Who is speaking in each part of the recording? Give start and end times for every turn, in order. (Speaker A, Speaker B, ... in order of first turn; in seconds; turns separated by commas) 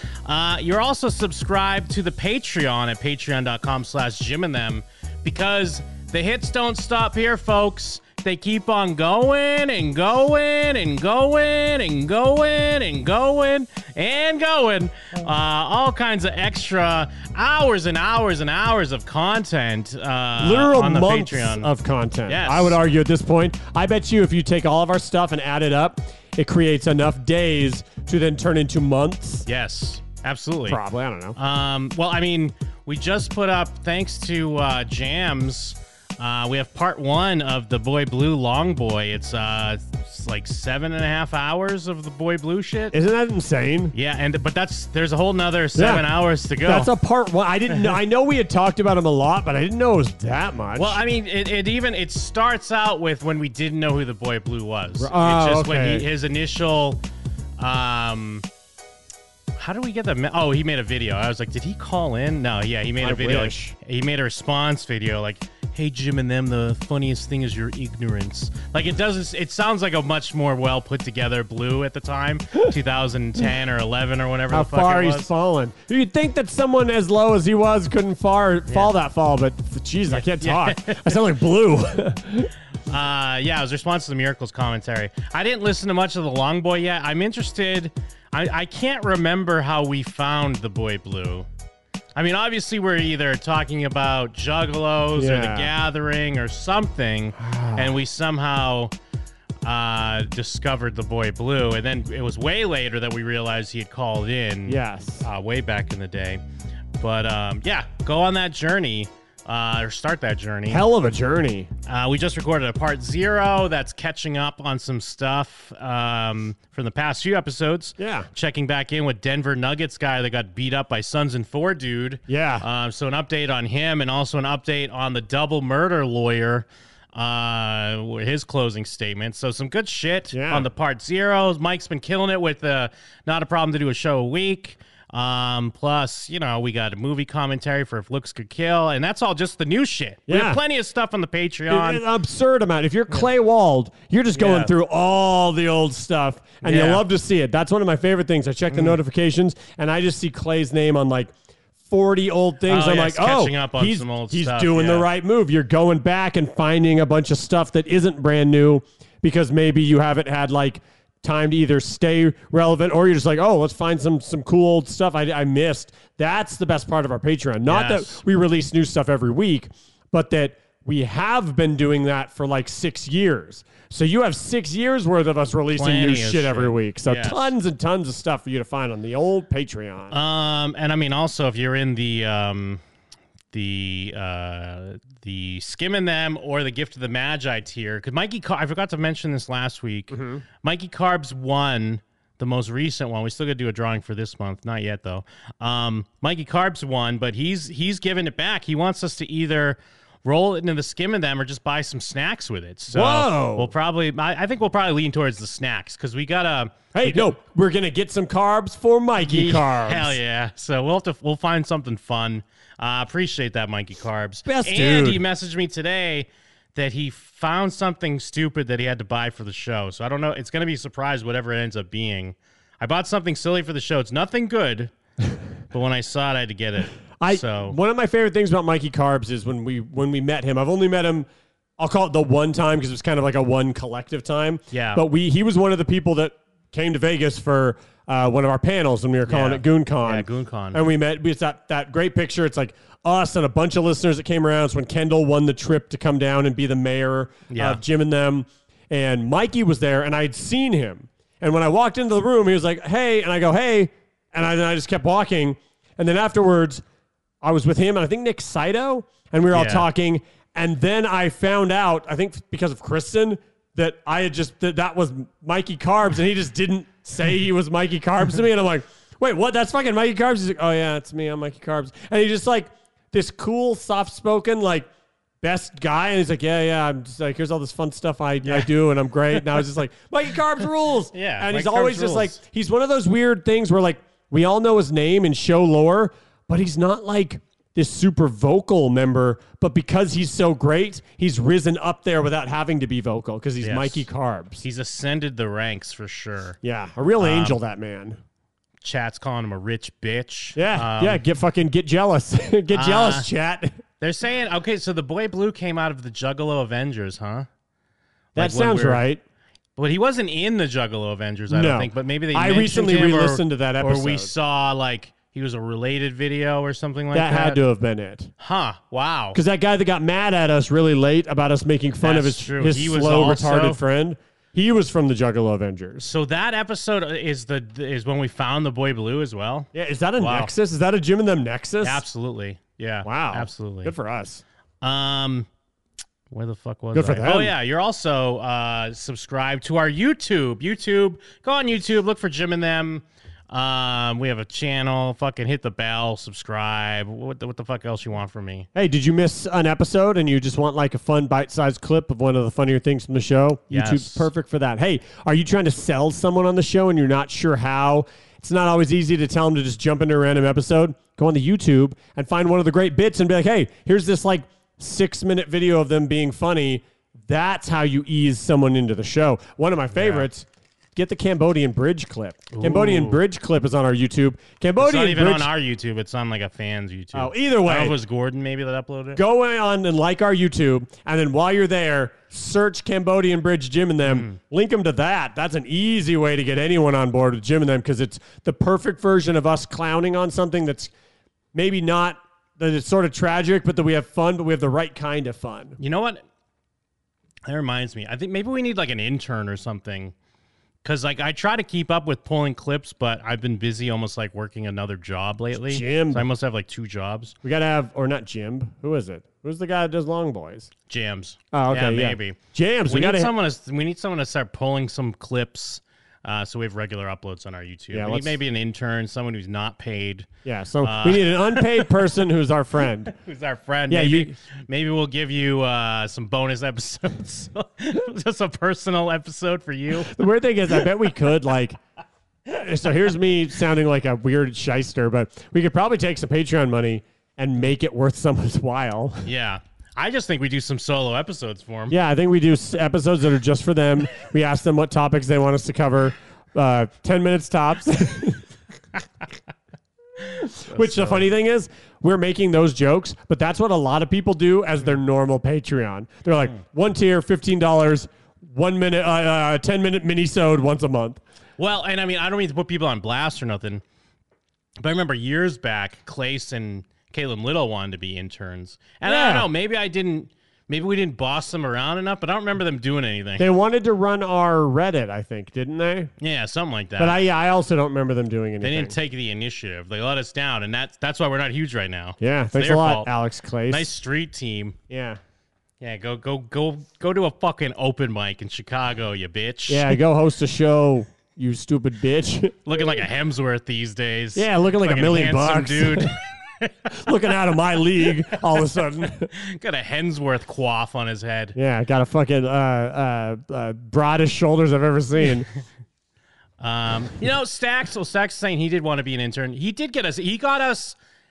Speaker A: 0.3-21.7, Speaker B: 20.4-29.5, Speaker A: 22.3-22.8, Speaker A: 29.5-30.8, Speaker B: 30.7-31.4, Speaker A: 31.4-43.0, Speaker B: 42.9-44.0, Speaker A: 43.9-46.9, Speaker B: 45.8-46.1, Speaker B: 46.6-51.0, Speaker A: 50.8-57.0, Speaker B: 55.0-56.1, Speaker A: 57.6-58.5, Speaker A: 59.6-75.3, Speaker B: 63.0-63.8, Speaker B: 74.5-82.5, Speaker A: 80.1-81.2, Speaker A: 82.9-91.5, Speaker A: 92.2-98.9, Speaker B: 95.2-95.7, Speaker B: 97.4-98.0, Speaker A: 99.6-106.4, Speaker B: 104.7-105.3, Speaker A: 107.0-110.8, Speaker B: 110.7-111.7, Speaker A: 111.9-142.1, Speaker B: 118.0-118.3, Speaker B: 122.3-122.7, Speaker B: 130.3-130.7, Speaker B: 140.3-140.6, Speaker B: 141.7-151.3, Speaker A: 144.3-144.7, Speaker A: 146.6-147.0, Speaker A: 148.7-149.0, Speaker B: 151.9-180.2, Speaker A: 152.7-155.1, Speaker A: 167.7-168.2, Speaker A: 175.7-177.5, Speaker A: 180.1-182.8, Speaker A: 183.5-207.3, Speaker B: 190.1-190.4, Speaker B: 202.9-203.7, Speaker B: 206.9-210.2, Speaker A: 209.2-224.9, Speaker B: 214.4-215.2, Speaker A: 225.7-227.8, Speaker B: 227.2-256.8, Speaker A: 234.7-235.0, Speaker A: 239.3-240.9, Speaker A: 247.5-247.8, Speaker B: 257.4-274.9, Speaker A: 259.5-259.9, Speaker B: 275.4-294.6, Speaker A: 278.4-278.7, Speaker A: 281.1-282.4, Speaker A: 293.6-294.1, Speaker A: 294.6-296.6, Speaker B: 296.6-298.2, Speaker A: 297.2-297.6, Speaker A: 298.8-301.2, Speaker B: 300.6-303.8, Speaker A: 302.7-303.3, Speaker A: 304.0-307.5, Speaker A: 308.4-309.0, Speaker B: 308.4-309.2, Speaker A: 309.8-317.6, Speaker B: 311.5-314.3, Speaker B: 317.1-318.3, Speaker A: 318.4-319.4, Speaker B: 319.3-326.1, Speaker A: 322.0-323.8, Speaker A: 326.0-329.7, Speaker B: 329.7-332.0, Speaker A: 330.2-330.5, Speaker A: 331.8-333.9, Speaker B: 333.0-334.4, Speaker A: 334.8-335.5, Speaker A: 336.3-348.7, Speaker B: 336.9-337.5, Speaker B: 348.7-375.5, Speaker A: 353.7-354.3, Speaker A: 369.9-370.3, Speaker A: 372.5-373.2, Speaker A: 374.8-379.2, Speaker B: 377.1-378.0, Speaker B: 379.2-390.9, Speaker A: 384.0-384.4, Speaker B: 391.5-395.8, Speaker A: 395.8-396.2, Speaker A: 397.4-400.1, Speaker A: 400.8-407.4, Speaker B: 405.6-406.3, Speaker B: 407.4-410.7, Speaker A: 410.9-420.3, Speaker B: 411.5-413.3, Speaker B: 417.9-418.4, Speaker B: 420.4-423.1, Speaker A: 420.8-421.9, Speaker A: 423.1-430.2, Speaker B: 423.9-424.4, Speaker B: 430.0-431.8, Speaker B: 432.5-439.2, Speaker A: 439.2-441.9, Speaker B: 441.9-448.4, Speaker B: 450.4-461.2, Speaker A: 450.7-451.3, Speaker A: 461.6-463.8, Speaker A: 464.8-473.5, Speaker B: 469.0-469.5, Speaker B: 473.4-476.1, Speaker A: 476.2-477.2, Speaker B: 477.0-478.9, Speaker A: 478.6-483.1, Speaker B: 482.2-483.9, Speaker A: 483.7-484.8, Speaker B: 484.9-485.2, Speaker A: 485.8-490.0, Speaker B: 489.7-492.6, Speaker A: 492.6-496.7, Speaker B: 494.4-496.1, Speaker B: 496.9-499.3, Speaker A: 499.4-501.6, Speaker B: 501.6-505.5, Speaker A: 506.6-511.0